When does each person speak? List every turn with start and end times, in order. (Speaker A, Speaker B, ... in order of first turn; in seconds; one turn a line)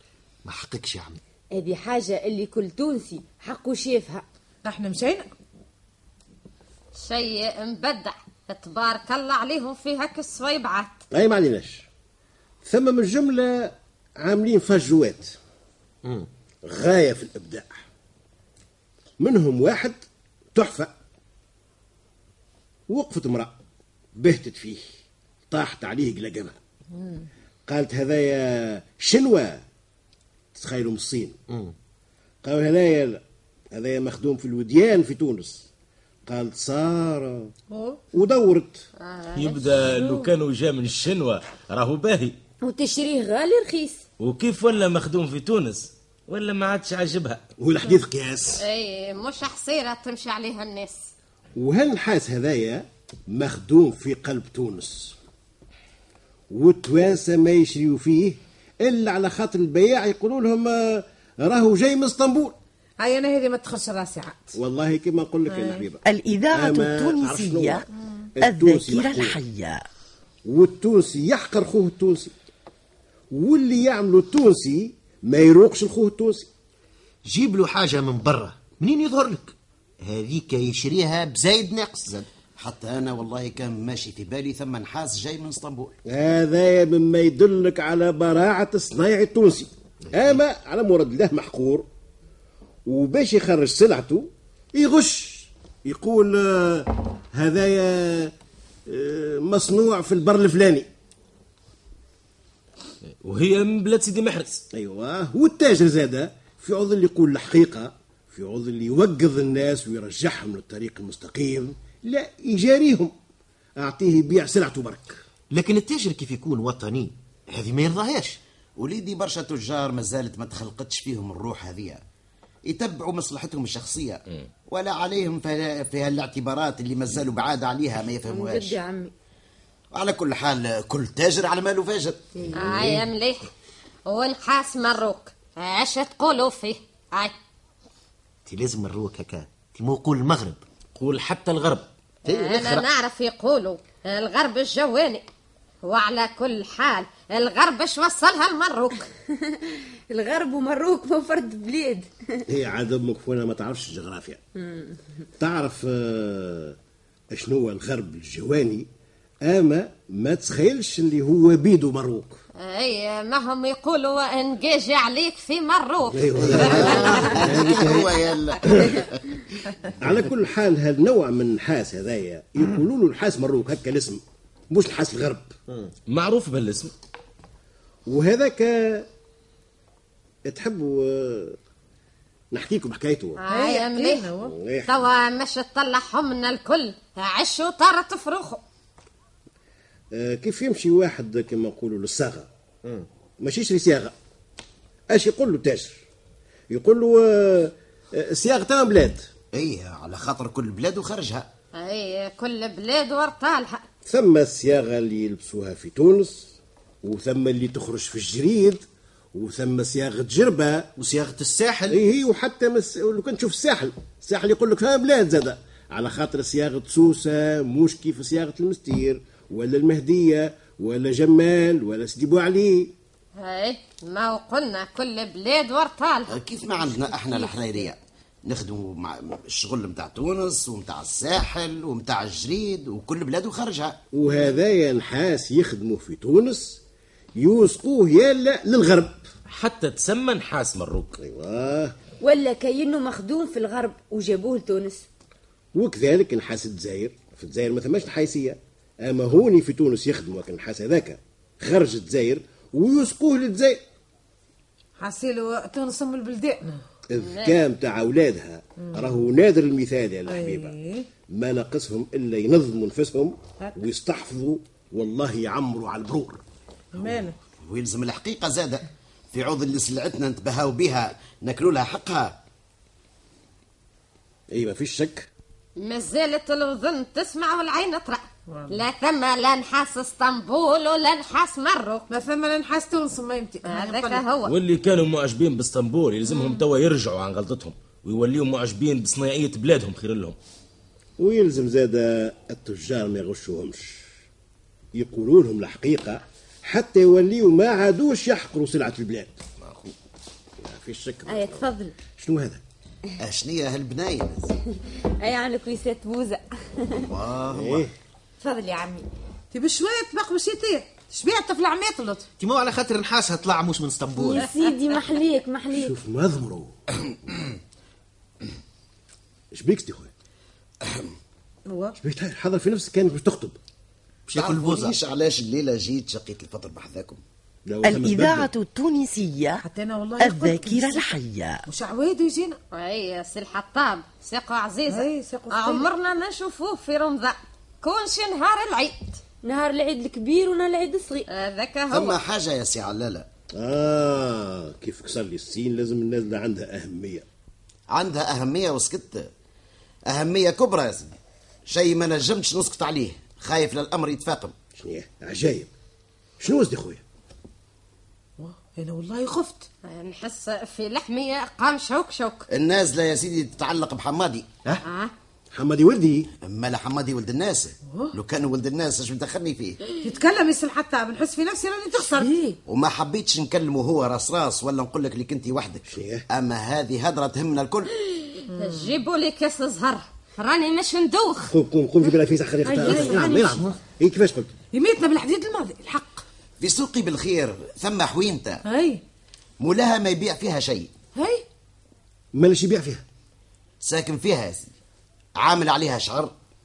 Speaker A: 0.5-1.2
Speaker B: 1.5-4.3
Speaker C: 4.7-5.3
Speaker D: 7.0-10.9
Speaker E: 11.1-11.9
Speaker E: 12.6-15.4
Speaker E: 16.6-17.8
Speaker E: 19.2-20.0
Speaker E: 20.5-20.9
Speaker E: 22.9-23.6
Speaker E: 24.1-24.8
Speaker E: 25.5-26.6
Speaker E: 27.7-29.6
Speaker E: 30.6-31.4
Speaker E: 32.4-33.2
Speaker E: 33.7-35.7
Speaker E: 36.2-37.5
Speaker C: 37.7-38.0
Speaker E: 38.1-38.8
Speaker D: 39.0-39.6
Speaker F: 39.4-42.4
Speaker C: 40.0-40.3
Speaker B: 42.6-44.0
Speaker F: 44.2-47.4
Speaker E: 47.6-48.6
Speaker D: 48.6-51.1
Speaker E: 51.6-55.2
Speaker E: 56.5-62.6
Speaker C: 63.0-64.6
Speaker E: 64.6-67.9
Speaker C: 65.5-65.9
Speaker G: 66.0-67.8
Speaker E: 68.4-69.4
Speaker G: 68.4-69.8
Speaker E: 70.5-72.3
Speaker E: 73.3-76.5
Speaker A: 77.2-82.3
Speaker H: 82.6-86.0
Speaker E: 86.1-91.9
Speaker E: 92.9-98.3
Speaker E: 98.9-100.9
Speaker F: 103.2-104.7
Speaker E: 104.7-113.1
Speaker E: 113.8-115.2
Speaker A: 115.5-118.4
Speaker H: 118.8-122.0
Speaker H: 122.7-128.8
Speaker B: 128.3-129.1
Speaker H: 129.9-132.4
Speaker B: 132.4-132.7
Speaker D: 132.5-133.5
Speaker F: 132.7-133.0
Speaker D: 134.1-137.3
Speaker A: 138.5-140.6
Speaker F: 141.0-141.9
Speaker D: 142.3-145.2
Speaker A: 142.3-142.9
Speaker D: 145.8-149.1
Speaker B: 149.4-152.4
Speaker E: 152.5-154.4
Speaker E: 155.4-156.8
Speaker E: 157.3-158.9
Speaker E: 159.4-162.4
Speaker D: 162.6-167.7
Speaker E: 166.1-168.1
Speaker H: 166.4-169.4
Speaker E: 168.6-169.0
Speaker E: 169.9-175.5
Speaker F: 176.1-176.9
Speaker E: 178.1-179.1
Speaker E: 180.5-181.6
Speaker E: 182.5-183.4
Speaker D: 183.4-184.3
Speaker C: 183.5-184.5
Speaker E: 184.4-184.9
Speaker D: 184.9-188.6
Speaker E: 190.1-192.5
Speaker E: 193.4-194.2
Speaker E: 195.1-196.0
Speaker E: 196.7-199.3
Speaker H: 199.5-201.5
Speaker D: 201.8-203.8
Speaker E: 204.1-208.8
Speaker E: 209.3-210.9
Speaker A: 211.0-212.0
Speaker E: 211.9-222.9
Speaker D: 223.4-226.4
Speaker H: 226.3-234.0
Speaker B: 226.8-227.7
Speaker E: 234.1-236.8
Speaker E: 237.4-239.2
Speaker F: 239.5-241.2
Speaker E: 241.2-241.9
Speaker B: 242.2-245.1
Speaker E: 245.7-253.8
Speaker C: 255.0-256.8
Speaker E: 257.1-260.8
Speaker D: 257.2-257.6
Speaker C: 258.8-259.1
Speaker C: 260.3-261.1
Speaker E: 261.3-266.4
Speaker C: 266.9-267.4
Speaker H: 267.6-272.4
Speaker E: 274.5-275.3
Speaker D: 275.8-282.1
Speaker C: 278.5-278.8
Speaker C: 282.1-284.2
Speaker D: 283.7-284.5
Speaker F: 284.5-290.4
Speaker D: 286.3-286.6
Speaker E: 291.2-294.1
Speaker E: 294.9-299.4
Speaker F: 299.6-299.9
Speaker E: 300.6-302.6
Speaker B: 301.3-301.9
Speaker H: 303.2-304.5
Speaker B: 305.2-307.1
Speaker H: 306.9-307.9
Speaker E: 307.5-307.9
Speaker B: 308.4-309.1
Speaker C: 309.5-312.3
Speaker A: 312.4-314.5
Speaker B: 314.3-315.9
Speaker E: 315.7-316.8
Speaker E: 319.5-320.1
Speaker H: 320.8-321.1
Speaker C: 321.7-322.0
Speaker E: 322.0-323.6
Speaker A: 324.3-325.0
Speaker H: 324.4-327.2
Speaker E: 327.7-328.5
Speaker G: 327.8-329.6
Speaker C: 329.6-331.1
Speaker G: 330.2-331.6
Speaker C: 331.7-332.6
Speaker D: 332.7-339.2
Speaker C: 334.9-335.9
Speaker B: 339.4-341.3
Speaker D: 341.3-342.2
Speaker H: 341.9-343.3
Speaker E: 343.5-347.3
Speaker H: 347.9-349.3
Speaker H: 350.1-351.2
Speaker H: 351.7-354.6
Speaker E: 354.8-355.7
Speaker E: 356.4-357.0
Speaker C: 358.4-359.7
Speaker D: 359.8-362.5
Speaker H: 362.5-364.5
Speaker D: 364.8-365.1
Speaker E: 365.5-366.3
Speaker H: 366.4-369.8
Speaker C: 367.9-368.2
Speaker C: 370.0-372.4
Speaker B: 371.9-372.6
Speaker H: 372.7-377.9
Speaker E: 375.9-376.3
Speaker D: 378.5-381.5
Speaker C: 378.5-378.9
Speaker E: 381.5-384.5
Speaker B: 382.6-383.6
Speaker C: 382.9-383.1
Speaker C: 384.7-386.2
Speaker H: 386.6-388.6
Speaker C: 388.6-389.0
Speaker H: 389.6-390.9
Speaker C: 391.1-391.4
Speaker E: 392.3-393.1
Speaker H: 393.8-394.7
Speaker H: 395.4-396.3